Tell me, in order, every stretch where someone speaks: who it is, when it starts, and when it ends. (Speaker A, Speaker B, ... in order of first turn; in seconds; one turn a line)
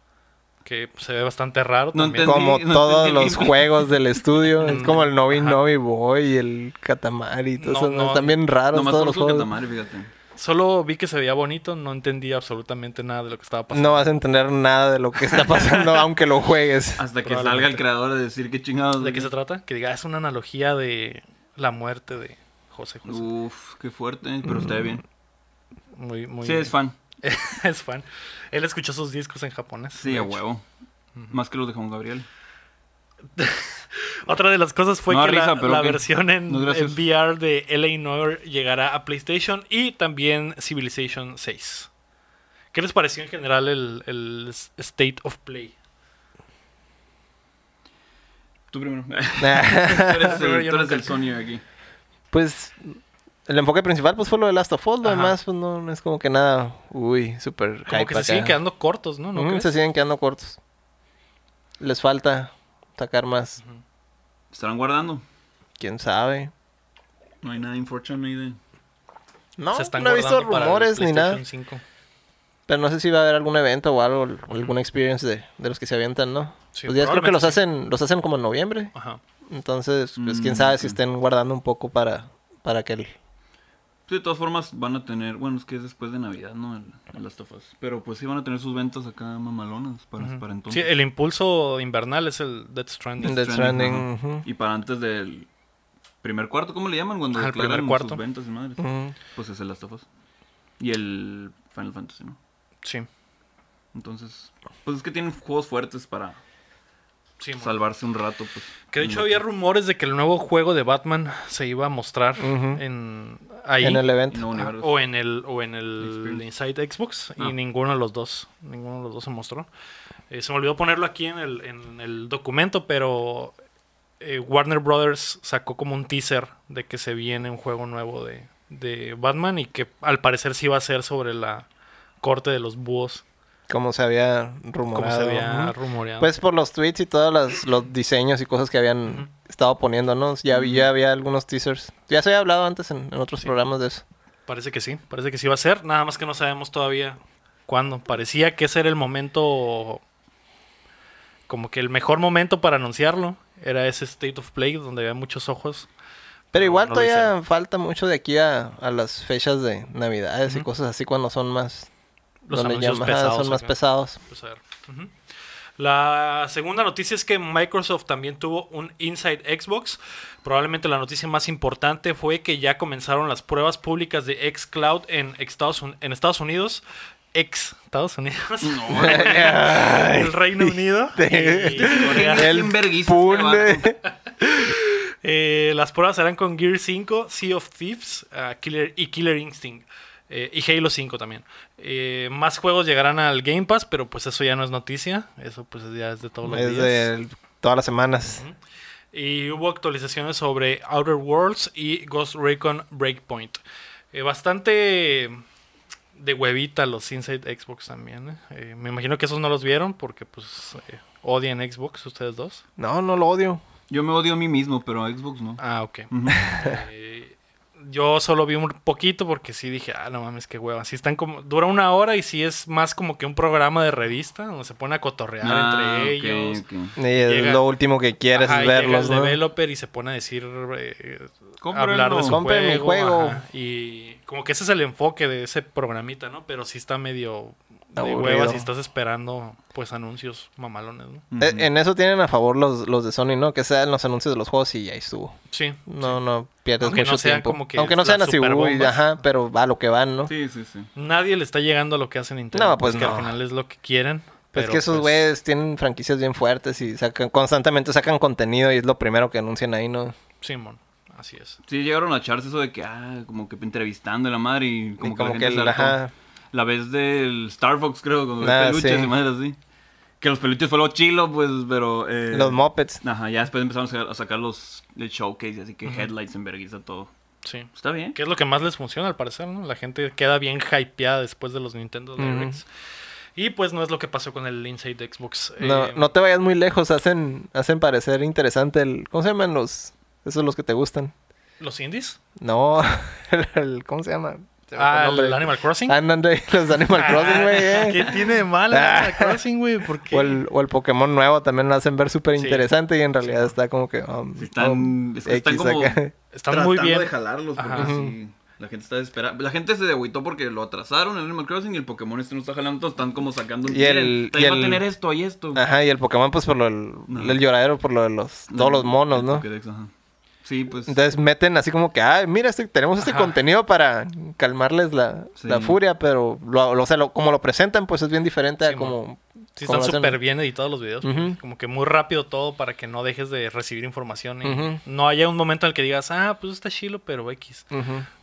Speaker A: 0.6-2.5
Speaker B: 1.9-3.9
Speaker C: 2.2-9.5
Speaker A: 4.6-5.6
Speaker A: 7.6-8.4
Speaker B: 8.7-10.1
Speaker A: 10.3-14.1
Speaker C: 13.7-17.0
Speaker B: 17.0-19.3
Speaker A: 17.2-17.8
Speaker A: 19.0-23.3
Speaker B: 23.1-25.0
Speaker A: 25.9-30.4
Speaker B: 26.4-26.9
Speaker B: 30.0-30.6
Speaker B: 31.3-32.3
Speaker A: 33.4-41.9
Speaker B: 35.1-37.0
Speaker A: 42.7-45.7
Speaker B: 48.7-51.6
Speaker C: 49.4-50.4
Speaker A: 50.1-51.2
Speaker C: 52.3-58.6
Speaker A: 55.0-55.3
Speaker A: 57.9-59.7
Speaker C: 59.3-60.6
Speaker C: 61.8-63.6
Speaker B: 64.5-65.2
Speaker C: 65.8-66.5
Speaker B: 67.4-68.6
Speaker C: 69.6-71.4
Speaker A: 69.7-71.8
Speaker C: 72.7-78.9
Speaker A: 76.7-77.6
Speaker A: 78.9-79.2
Speaker C: 79.5-83.1
Speaker B: 80.2-81.0
Speaker B: 84.1-90.9
Speaker A: 90.2-93.5
Speaker B: 93.2-95.5
Speaker C: 93.2-94.5
Speaker B: 96.2-100.0
Speaker A: 97.3-98.2
Speaker C: 98.8-99.1
Speaker B: 100.8-102.4
Speaker B: 103.9-106.4
Speaker A: 107.4-107.7
Speaker B: 107.6-109.4
Speaker A: 108.9-119.7
Speaker C: 112.4-112.8
Speaker C: 113.8-114.4
Speaker B: 114.3-115.0
Speaker B: 116.0-116.4
Speaker A: 120.3-123.5
Speaker A: 124.2-131.7
Speaker A: 132.2-133.2
Speaker C: 133.7-144.0
Speaker A: 134.9-136.3
Speaker B: 140.5-140.9
Speaker A: 144.5-150.0
Speaker A: 151.5-155.9
Speaker C: 156.5-161.9
Speaker A: 156.5-157.3
Speaker A: 162.4-165.1
Speaker C: 162.5-164.2
Speaker A: 165.8-176.8
Speaker A: 177.3-182.6
Speaker B: 178.6-179.5
Speaker C: 178.9-184.0
Speaker B: 181.8-183.9
Speaker A: 184.4-197.1
Speaker C: 196.4-198.4
Speaker A: 198.3-198.6
Speaker A: 199.1-203.6
Speaker A: 204.1-205.4
Speaker A: 206.1-212.6
Speaker C: 212.8-213.6
Speaker B: 213.9-216.5
Speaker A: 215.6-226.6
Speaker C: 216.5-216.8
Speaker B: 225.4-226.9
Speaker C: 227.0-229.4
Speaker A: 227.1-227.6
Speaker A: 228.3-241.2
Speaker B: 231.6-232.4
Speaker C: 232.2-233.4
Speaker C: 238.0-238.7
Speaker B: 241.3-241.7
Speaker C: 241.4-245.3
Speaker A: 245.5-246.2
Speaker C: 245.9-250.3
Speaker A: 246.8-249.1
Speaker B: 250.3-250.9
Speaker A: 250.9-255.3
Speaker C: 252.5-253.3
Speaker C: 254.5-260.1
Speaker A: 260.4-261.6
Speaker B: 261.6-266.0
Speaker C: 265.0-266.1
Speaker B: 266.5-269.6
Speaker C: 268.4-269.1
Speaker B: 270.2-277.1
Speaker C: 272.3-273.0
Speaker A: 277.4-282.6
Speaker B: 277.7-278.2
Speaker C: 282.2-282.6
Speaker A: 283.4-286.1
Speaker C: 285.6-291.1
Speaker A: 291.6-292.2
Speaker C: 292.4-299.4
Speaker A: 294.7-296.0
Speaker A: 296.9-300.4
Speaker C: 300.1-306.1
Speaker A: 302.4-302.7
Speaker A: 303.2-303.5
Speaker B: 304.4-315.6
Speaker A: 306.3-307.9
Speaker C: 307.8-308.1
Speaker C: 313.6-314.8
Speaker C: 315.5-319.4
Speaker B: 317.1-317.4
Speaker B: 318.5-319.9
Speaker B: 320.4-321.0
Speaker C: 320.9-330.2
Speaker A: 323.0-323.4
Speaker B: 325.4-325.8
Speaker A: 328.6-329.0
Speaker A: 329.6-337.7
Speaker C: 331.0-331.3
Speaker C: 334.4-334.8
Speaker C: 337.7-338.1